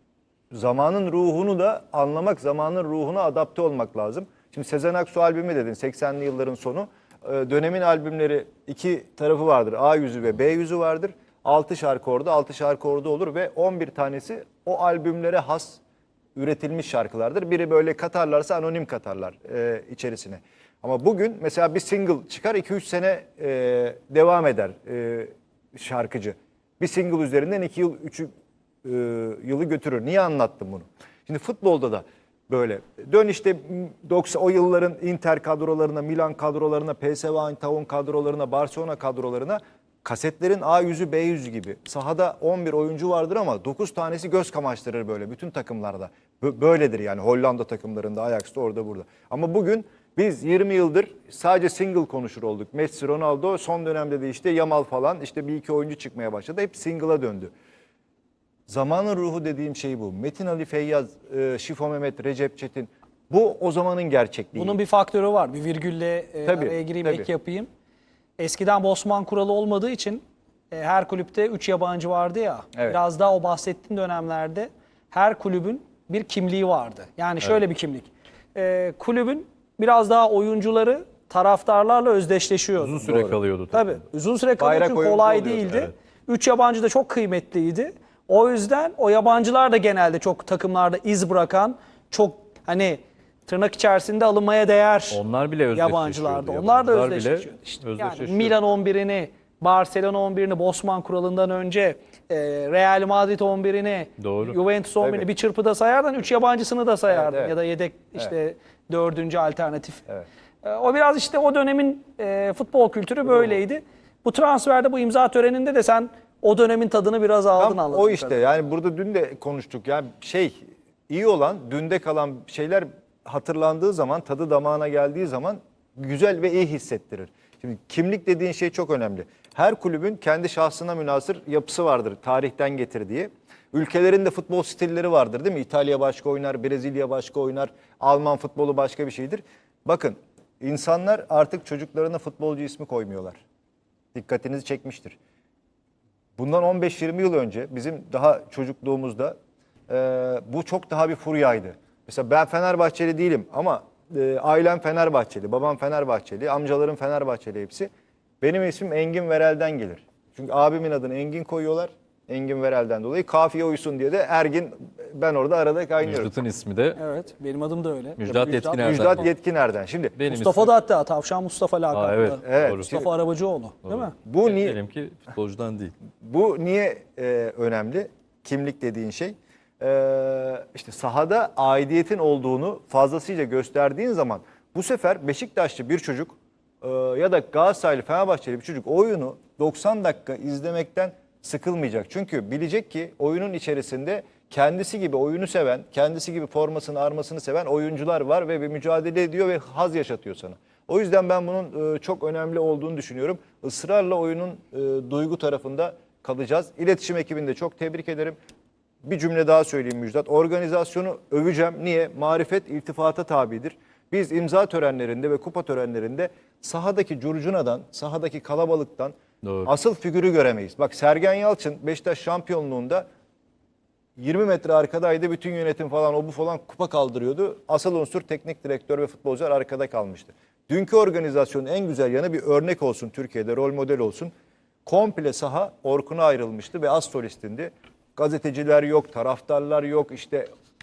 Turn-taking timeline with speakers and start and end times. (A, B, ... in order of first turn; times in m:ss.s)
0:00.5-0:15.8 A
0:16.4-0:28.3 A
0:28.8-0:57.5 A
0:58.7-1:04.8 A
1:04.5-1:07.7 B
1:06.4-1:07.3 A
1:08.4-1:23.1 B
1:22.8-1:24.0 C
1:23.0-1:23.4 A
1:23.7-1:35.2 B
1:24.6-1:25.9 A
1:35.1-1:38.6 C
1:35.7-1:50.0 B
1:44.2-1:44.6 C
1:45.0-1:45.3 A
1:47.1-1:47.5 A
1:50.6-1:58.4 B
1:57.6-2:23.4 A
2:24.1-2:25.2 A
2:26.4-2:29.3 A
2:29.9-2:37.9 A
2:38.4-2:46.3 A
2:46.0-2:47.0 C
2:47.0-2:49.2 B
2:48.2-2:49.3 C
2:48.8-2:50.2 A
2:50.2-2:50.7 C
2:50.3-2:54.1 B
2:51.9-2:52.9 C
2:52.4-2:53.1 A
2:53.8-2:56.0 C
2:54.2-2:54.8 A
2:56.2-3:28.4 A
3:29.0-3:39.1 A
3:39.4-3:39.7 C
3:39.6-3:43.1 A
3:44.2-3:54.3 A
3:54.8-4:00.5 A